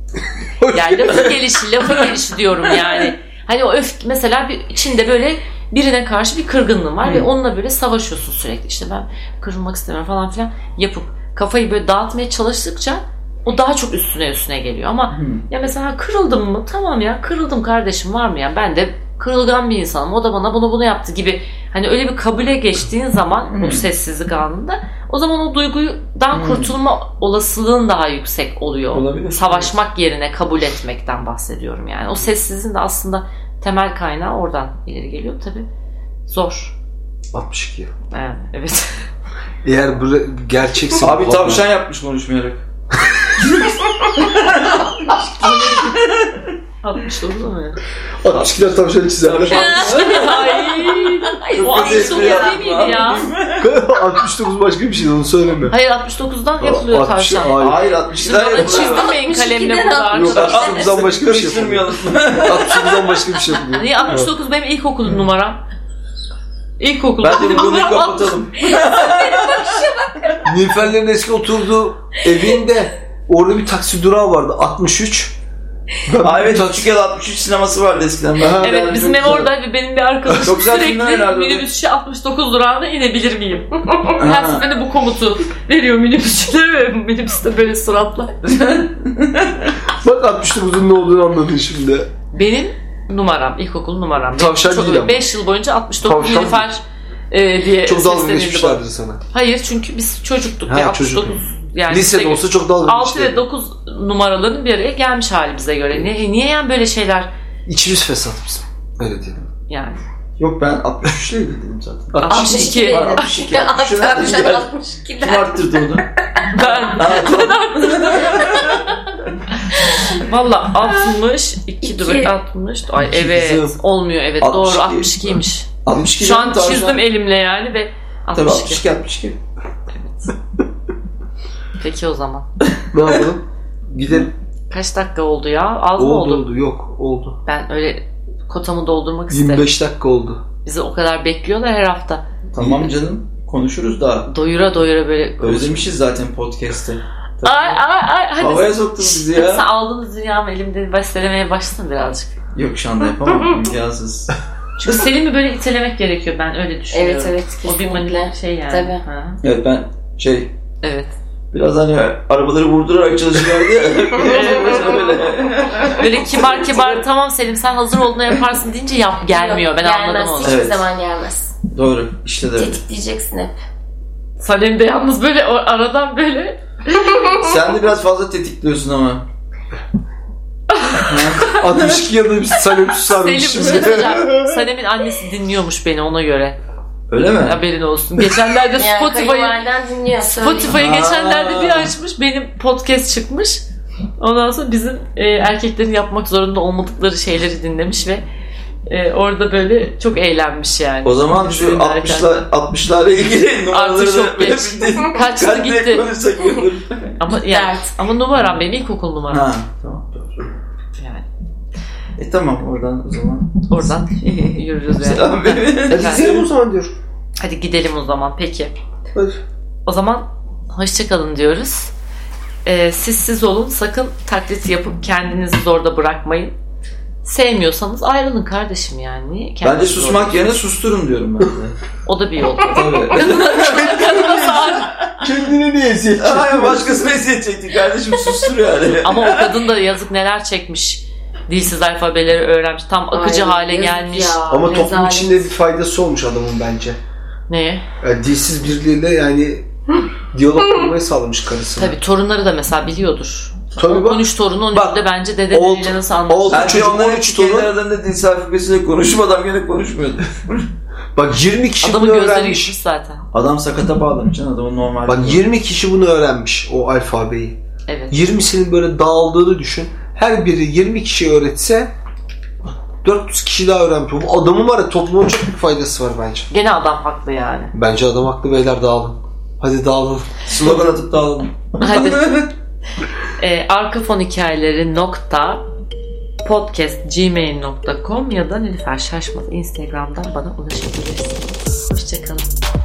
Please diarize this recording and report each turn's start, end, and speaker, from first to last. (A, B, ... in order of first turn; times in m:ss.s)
0:00.6-0:01.4 A
0:00.7-0:35.7 B
0:07.0-0:07.3 C
0:15.1-0:15.4 C
0:23.5-0:23.9 C
0:26.3-0:26.7 C
0:28.9-0:29.7 C
0:36.3-0:36.8 B
0:37.3-0:37.9 A
0:38.1-0:39.0 B
0:39.6-0:41.7 A
0:41.0-0:42.6 C
0:43.4-0:46.6 C
0:46.8-0:47.8 B
0:48.2-0:49.8 A
0:48.3-0:50.5 C
0:49.5-0:53.1 D
0:49.5-0:53.3 B
0:51.5-0:53.7 C
0:53.6-0:55.8 A
0:55.7-0:57.6 B
0:56.6-0:57.8 A
0:57.6-0:59.2 C
0:58.1-1:01.0 B
0:58.6-1:00.8 D
1:00.1-1:04.3 A
1:00.4-1:03.2 C
1:03.6-1:05.6 B
1:06.8-1:08.4 B
1:07.2-1:09.9 C
1:08.8-1:10.4 D
1:10.4-1:15.4 A
1:16.1-1:16.9 A
1:16.2-1:19.5 C
1:18.4-1:19.4 A
1:18.6-1:28.9 B
1:20.4-1:21.6 C
1:24.2-1:24.7 C
1:29.0-1:29.7 C
1:29.9-1:32.1 A
1:32.3-1:47.3 B
1:34.4-1:35.2 A
1:36.0-1:36.7 A
1:37.8-1:39.2 A
1:40.7-1:43.4 A
1:47.7-1:49.4 A
1:49.7-1:50.0 B
1:50.4-1:56.1 C
1:52.1-1:52.8 A
1:52.3-1:53.3 B
1:52.3-1:55.8 D
1:56.5-1:58.6 B
1:56.6-1:58.9 C
1:58.3-1:58.8 D
2:00.1-2:08.8 B
2:01.8-2:02.3 D
2:03.0-2:03.8 A
2:04.4-2:07.0 C
2:08.4-2:09.4 C
2:09.9-2:10.4 B
2:11.8-2:12.5 B
2:12.9-2:14.3 A
2:14.7-2:16.5 B
2:16.0-2:17.4 A
2:17.5-2:19.7 B
2:19.3-2:20.4 A
2:20.6-2:22.2 B
2:22.5-2:24.3 C
2:22.6-2:22.8 A
2:24.3-2:25.9 B
2:25.4-2:27.8 C
2:27.4-2:32.4 B
2:28.4-2:29.7 C
2:32.6-2:34.4 C
2:34.8-2:39.4 B
2:36.9-2:39.0 D
2:39.4-2:40.5 C
2:40.8-2:41.1 B
2:41.5-2:46.8 C
2:44.2-2:45.2 B
2:45.9-2:50.6 B
2:49.3-2:51.6 D
2:50.4-2:50.8 C
2:51.7-2:52.8 C
2:52.6-2:53.6 D
2:54.4-2:57.4 B
2:57.4-2:59.2 C
3:00.8-3:01.1 B
3:01.0-3:02.1 C
3:01.5-3:04.2 A
3:03.1-3:06.6 B
3:03.7-3:04.2 C
3:07.1-3:07.6 C
3:07.4-3:09.6 B
3:08.8-3:10.8 D
3:10.2-3:13.6 B
3:10.7-3:11.9 C
3:14.2-3:18.2 B
3:18.9-3:22.4 B
3:21.0-3:27.0 C
3:23.7-3:26.1 B
3:27.2-3:29.5 B
3:27.4-3:27.9 D
3:29.3-3:30.5 C
3:31.0-3:31.3 B
3:32.2-3:36.5 C
3:33.7-3:36.3 B
3:35.9-3:37.0 A
3:37.4-3:38.8 B
3:39.2-3:39.4 A
3:39.9-3:41.9 B
3:42.6-3:46.5 B
3:47.2-3:50.6 B
3:49.6-3:51.8 C
3:52.1-3:55.0 B
3:52.7-3:55.3 C
3:55.2-3:56.9 A
3:56.2-3:59.5 C
3:59.0-4:04.4 B
4:03.1-4:05.5 D
4:04.5-4:07.0 A
4:07.5-4:07.8 B
4:08.0-4:09.7 A
4:10.3-4:12.0 A
4:11.8-4:16.9 B
4:13.8-4:17.7 A
4:16.5-4:20.7 C
4:21.2-4:22.8 A
4:21.8-4:23.2 B
4:23.3-4:25.4 C
4:25.1-4:27.6 A
4:27.9-4:28.2 B
4:28.1-4:31.9 A
4:33.0-4:36.5 A
4:36.5-4:37.7 B
4:37.7-4:40.3 A
4:40.5-4:42.5 C
4:41.8-4:42.4 B
4:43.4-4:45.7 B
4:46.4-4:52.4 B